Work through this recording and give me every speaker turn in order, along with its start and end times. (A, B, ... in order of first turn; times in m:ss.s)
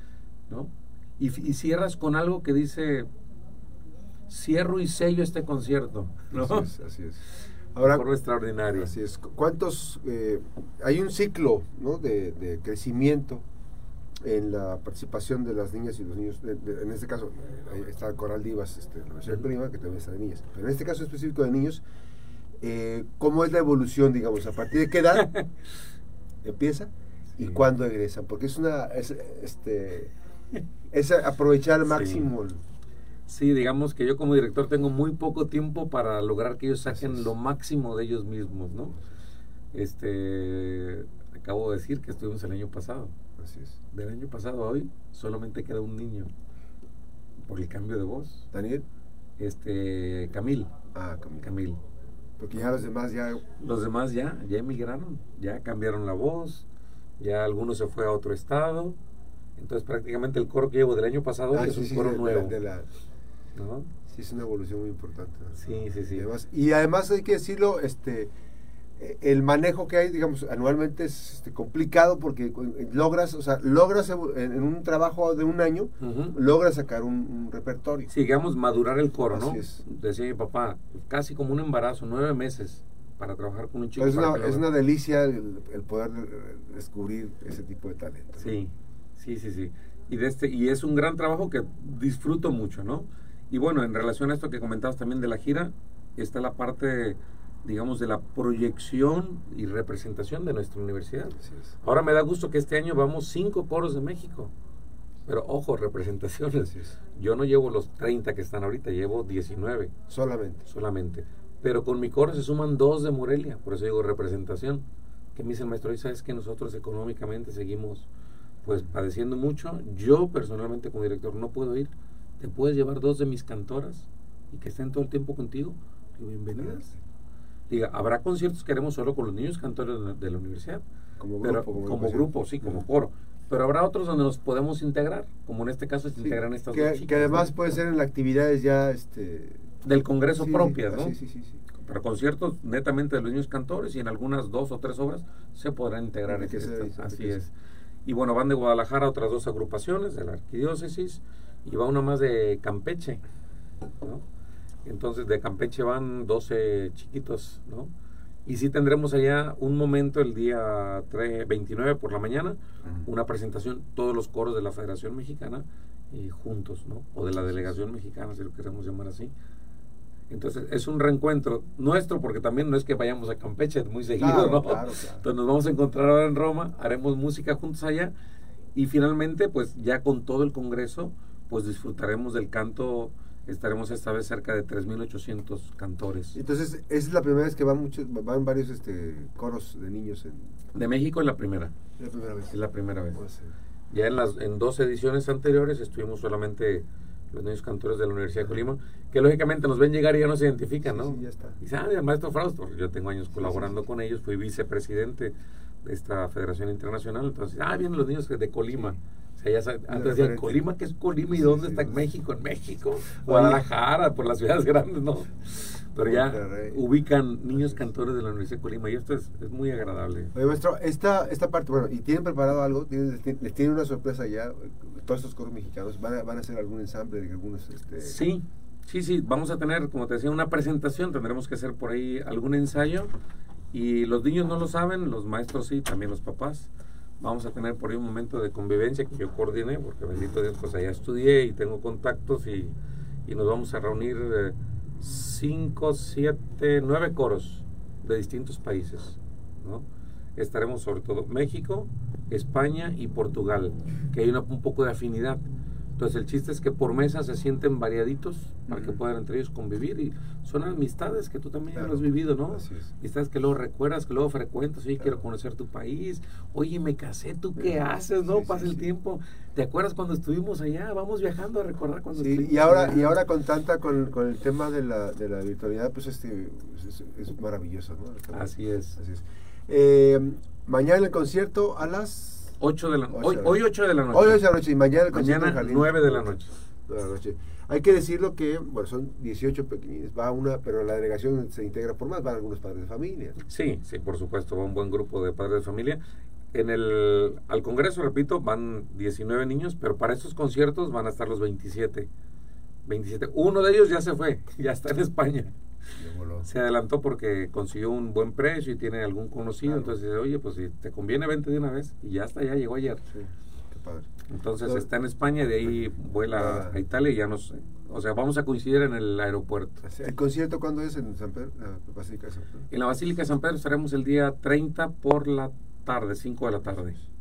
0:00.5-0:03.1 A
0:04.3-0:06.7 A
0:06.3-0:08.0 B
0:07.8-0:08.9 A
0:08.7-0:13.4 B
0:14.2-0:21.8 B
0:22.6-0:25.3 B
0:25.2-0:25.5 A
0:26.4-0:30.1 B
0:30.9-0:32.6 B
0:31.8-0:32.3 A
0:33.3-0:39.0 A
0:36.8-0:37.3 B
0:39.7-0:43.1 A
0:43.4-0:43.8 B
0:43.9-0:46.3 A
0:47.4-0:48.5 A
0:48.5-0:48.8 B
0:49.4-0:50.7 A
0:50.9-0:51.6 B
0:51.4-0:51.8 A
0:52.4-0:53.4 B
0:53.6-0:56.7 A
0:57.2-0:59.0 A
0:59.6-1:02.6 A
1:01.5-1:02.9 B
1:03.5-1:03.9 A
1:04.0-1:08.3 B
1:05.6-1:06.3 A
1:09.0-1:18.1 B
1:16.0-1:16.4 A
1:18.1-1:24.6 A
1:19.3-1:19.8 B
1:24.0-1:28.6 B
1:28.4-1:44.5 A
1:41.4-1:41.8 B
1:45.2-1:49.9 A
1:46.6-1:47.0 B
1:50.1-1:50.7 B
1:50.7-1:58.1 A
1:58.6-2:06.9 A
2:06.5-2:07.0 B
2:07.7-2:10.8 A
2:11.2-2:12.8 B
2:11.4-2:17.5 A
2:16.2-2:19.7 B
2:19.8-2:21.2 A
2:20.4-2:21.6 B
2:21.8-2:27.5 A
2:26.3-2:27.4 B
2:28.0-2:33.2 A
2:34.8-2:37.9 A
2:38.4-2:49.3 A
2:47.4-2:47.8 B
2:50.3-2:58.1 A
2:54.1-2:55.3 B
2:58.7-3:06.4 A
3:06.3-3:10.6 B
3:10.7-3:11.7 A
3:12.0-3:12.6 B
3:12.5-3:13.2 A
3:13.1-3:13.5 B
3:13.9-3:40.3 A
3:20.8-3:21.6 B
3:23.4-3:23.8 B
3:29.9-3:30.7 B
3:31.3-3:32.1 B
3:33.1-3:33.6 B
3:36.0-3:36.8 B
3:37.5-3:37.8 B
3:40.3-3:48.2 B
3:48.0-3:53.1 A
3:53.7-4:15.4 A
4:16.0-4:33.2 A
4:18.7-4:19.0 B
4:21.7-4:22.9 B
4:27.6-4:28.9 B
4:32.2-4:42.6 B
4:38.3-4:39.0 A
4:42.6-4:44.4 A
4:43.1-4:53.4 B
4:45.1-4:46.5 A
4:53.5-4:56.0 A
4:56.5-5:02.1 A
5:02.8-5:05.5 A
5:05.9-5:06.5 B
5:06.4-5:13.0 A
5:09.6-5:09.9 B
5:13.1-5:14.1 B
5:14.3-5:19.8 A
5:14.6-5:14.9 B
5:15.6-5:16.8 B
5:19.8-5:22.6 B
5:22.7-5:27.0 A